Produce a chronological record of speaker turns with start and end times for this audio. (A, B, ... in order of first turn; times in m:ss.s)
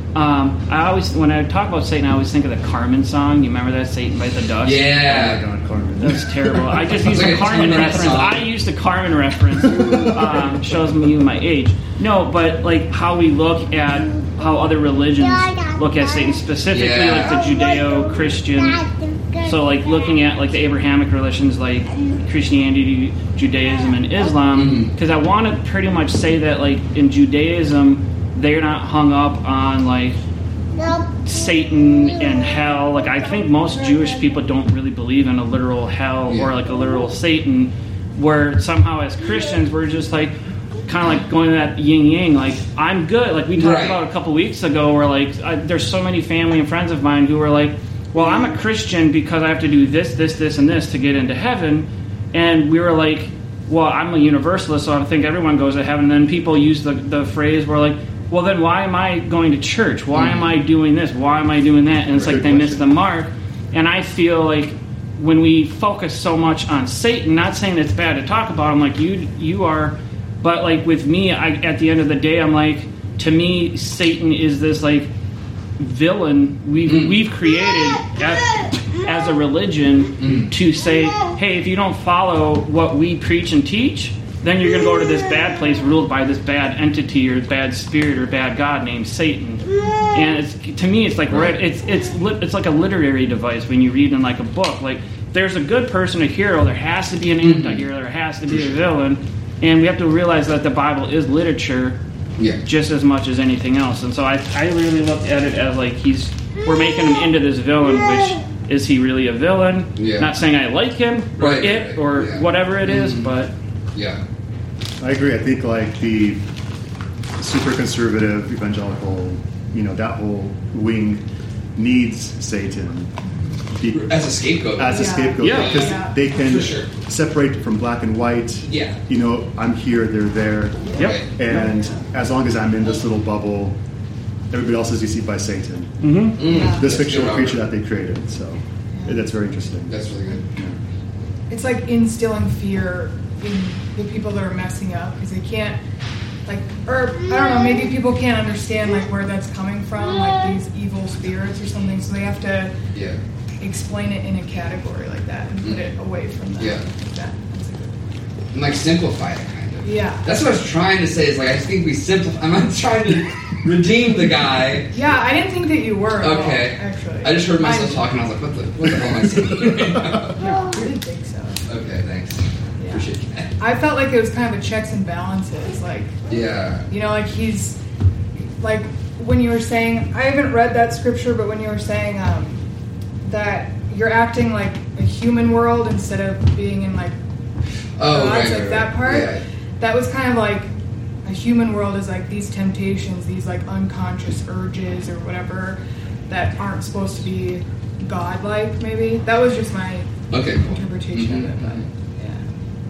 0:00.1-0:04.9 A
0:04.6-0:05.4 B
0:05.1-0:07.5 C
0:06.0-0:30.2 A
0:07.0-0:08.4 B
0:09.8-0:10.1 C
0:16.7-0:17.4 B
0:24.5-0:24.9 B
0:30.9-0:40.3 A
0:40.9-1:15.1 A
0:43.6-0:44.0 B
1:00.1-1:00.4 B
1:02.1-1:02.9 C
1:15.8-1:42.0 A
1:16.8-1:17.2 B
1:20.2-1:20.5 B
1:31.3-1:31.5 B
1:37.4-1:37.8 B
1:42.6-1:53.5 A
1:50.0-1:50.3 B
1:51.4-1:53.3 B
1:53.9-1:54.2 B
1:55.0-1:56.5 C
1:57.4-2:01.2 C
2:01.8-2:03.1 C
2:03.8-2:04.1 C
2:03.9-2:05.9 B
2:04.8-2:13.8 C
2:04.9-2:06.1 D
2:05.4-2:06.0 A
2:06.4-2:06.9 B
2:08.7-2:09.0 B
2:11.0-2:11.2 B
2:11.5-2:11.9 D
2:14.5-2:20.8 C
2:16.0-2:16.4 A
2:16.4-2:17.6 B
2:16.4-2:16.9 D
2:18.9-2:19.2 D
2:19.9-2:20.4 B
2:21.5-2:25.8 D
2:26.4-2:32.7 D
2:32.9-2:33.2 B
2:33.6-2:38.2 D
2:38.5-2:44.9 B
2:39.8-2:40.2 D
2:44.9-2:48.0 D
2:46.2-2:50.4 B
2:50.2-2:51.6 D
2:51.7-2:53.5 B
2:52.8-2:53.0 D
2:53.6-2:56.2 D
2:56.3-2:56.8 B
2:56.9-2:57.8 D
2:58.6-3:02.6 D
3:03.2-3:07.2 D
3:08.0-3:09.4 B
3:08.0-3:10.7 D
3:11.2-3:22.4 D
3:20.3-3:21.8 B